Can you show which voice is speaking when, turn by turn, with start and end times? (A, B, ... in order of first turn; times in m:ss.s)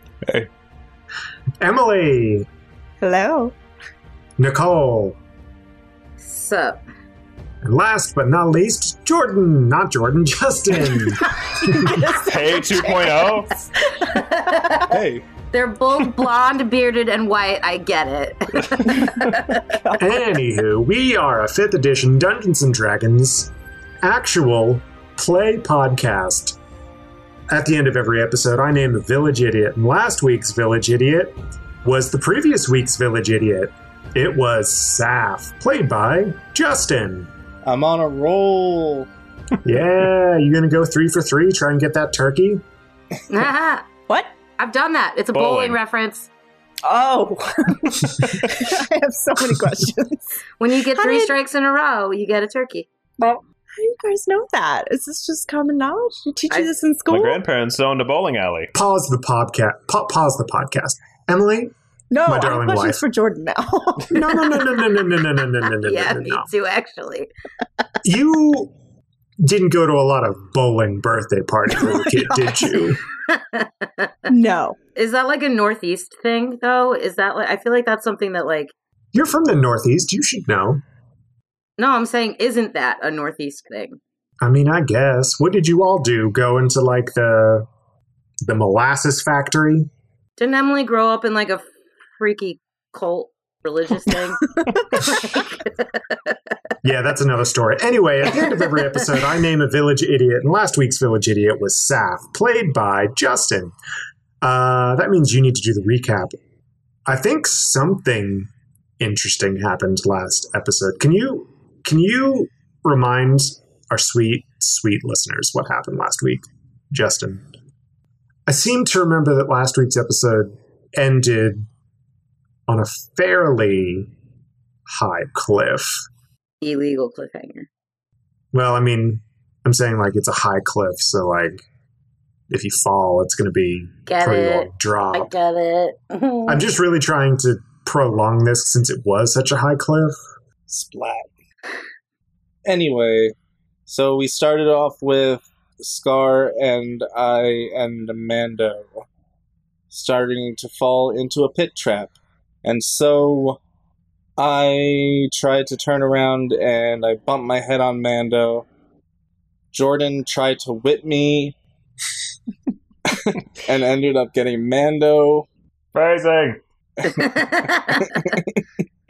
0:00.2-0:00.5 A
0:01.6-0:02.5 B
0:03.0-0:03.6 C
0:04.4-0:05.2 B
0:06.2-0:06.8 D
0:07.6-0:12.0 B
0:11.0-0:14.9 C
0:12.1-0:13.6 A
0:14.1-0:14.9 D
0:14.9-0:15.2 E
0:15.5-0:19.7 D
0:19.1-0:20.0 C
0:20.0-0:26.6 B
0:27.5-0:37.3 B
0:37.6-0:39.1 E
0:39.6-0:42.6 B
0:43.3-0:43.9 D
0:44.6-0:46.3 D
0:45.3-0:45.8 A
0:46.8-0:51.3 C
0:50.6-0:52.9 D
0:53.2-0:57.4 C
0:57.1-0:58.7 A
0:58.7-1:01.7 B
1:02.1-1:04.6 C
1:02.2-1:03.0 B
1:04.1-1:06.5 B
1:05.8-1:07.3 D
1:08.0-1:08.7 B
1:09.4-1:13.0 B
1:11.7-1:12.9 C
1:13.3-1:14.1 D
1:14.3-1:14.8 C
1:15.0-1:18.7 D
1:19.1-1:20.8 B
1:21.8-1:24.0 D
1:24.4-1:27.7 B
1:28.4-1:29.9 B
1:30.4-1:31.7 D
1:32.2-1:36.2 D
1:34.7-1:35.0 C
1:36.8-1:43.7 B
1:44.4-1:46.3 B
1:47.1-1:57.5 B
1:58.5-2:01.7 B
2:02.7-2:04.1 B
2:04.9-2:06.0 B
2:06.6-2:07.7 D
2:08.5-2:11.6 B
2:12.5-2:15.3 B
2:14.1-2:16.6 D
2:16.5-2:20.2 B
2:20.7-2:21.3 E
2:22.7-2:23.4 E
2:23.9-2:29.1 E
2:29.9-2:33.6 E
2:34.4-2:38.7 E
2:39.7-2:41.6 E
2:43.1-2:45.5 E
2:45.9-2:46.6 A
2:47.0-2:48.4 D
2:47.1-2:48.5 E